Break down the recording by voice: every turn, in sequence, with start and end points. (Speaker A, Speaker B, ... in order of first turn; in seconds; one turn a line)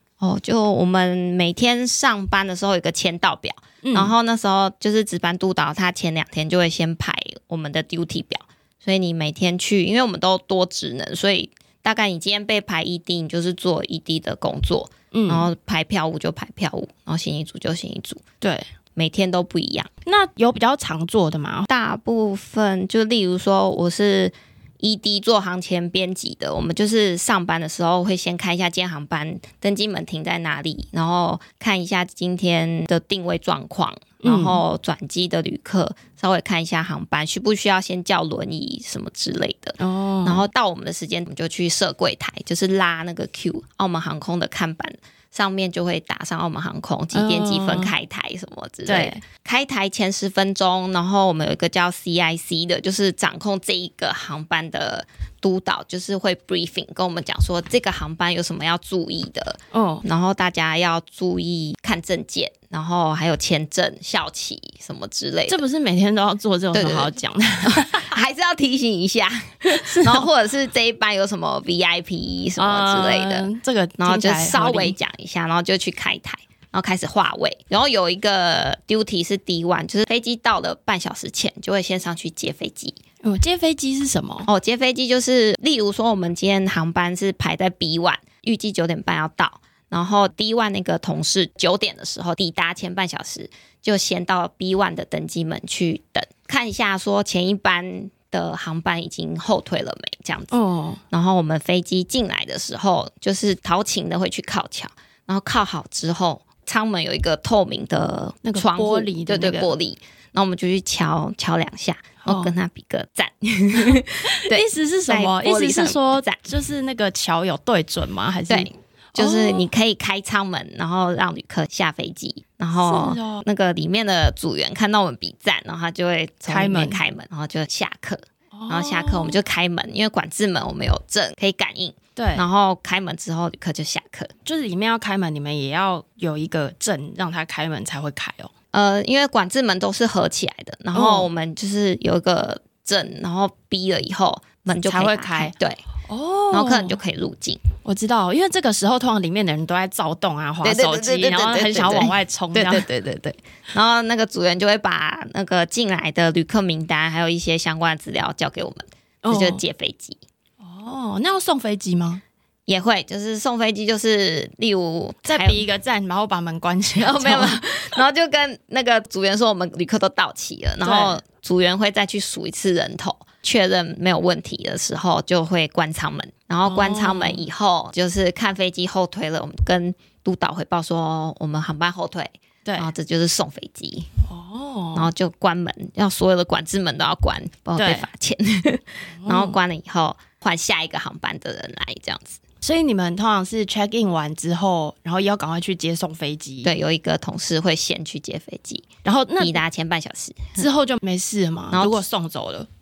Speaker A: 0.2-18.2
Speaker B: 3.8-4.1
Speaker B: 15.1-15.5
Speaker B: 18.4-18.6
Speaker A: 18.9-19.9
Speaker B: 20.0-21.7
Speaker A: 21.7-65.6
Speaker B: 34.2-34.6
Speaker B: 39.8-40.5
Speaker B: 47.1-47.9
Speaker B: 48.9-49.2
Speaker B: 59.7-60.0
Speaker B: 65.5-68.1
Speaker A: 66.7-73.5
Speaker B: 69.7-70.3
Speaker B: 72.6-75.0
Speaker A: 74.0-83.0
Speaker B: 83.2-84.5
Speaker A: 84.5-100.5
Speaker B: 100.5-101.0
Speaker A: 101.1-116.4
Speaker B: 108.4-109.7
Speaker B: 112.2-112.5
Speaker B: 113.8-119.7
Speaker A: 118.5-134.3
Speaker B: 122.8-123.4
Speaker B: 126.5-127.0
Speaker B: 128.5-129.4
Speaker B: 132.2-132.4
Speaker B: 134.4-138.5
Speaker A: 138.7-145.8
Speaker B: 140.9-141.3
Speaker B: 144.8-145.5
Speaker B: 146.1-147.0
Speaker A: 146.5-147.6
Speaker B: 147.8-152.9
Speaker A: 150.6-160.2
Speaker B: 159.2-159.6
Speaker B: 160.6-162.2
Speaker A: 162.7-165.7
Speaker B: 165.2-167.6
Speaker A: 167.0-184.1
Speaker B: 170.8-171.2
Speaker B: 176.7-177.4
Speaker B: 182.6-182.9
Speaker B: 184.2-185.1
Speaker A: 184.9-192.4
Speaker B: 187.8-188.1
Speaker B: 189.2-189.6
Speaker B: 192.6-196.7
Speaker A: 196.6-198.9
Speaker B: 199.0-199.6
Speaker A: 199.4-200.7
Speaker B: 200.6-202.7
Speaker A: 201.7-202.0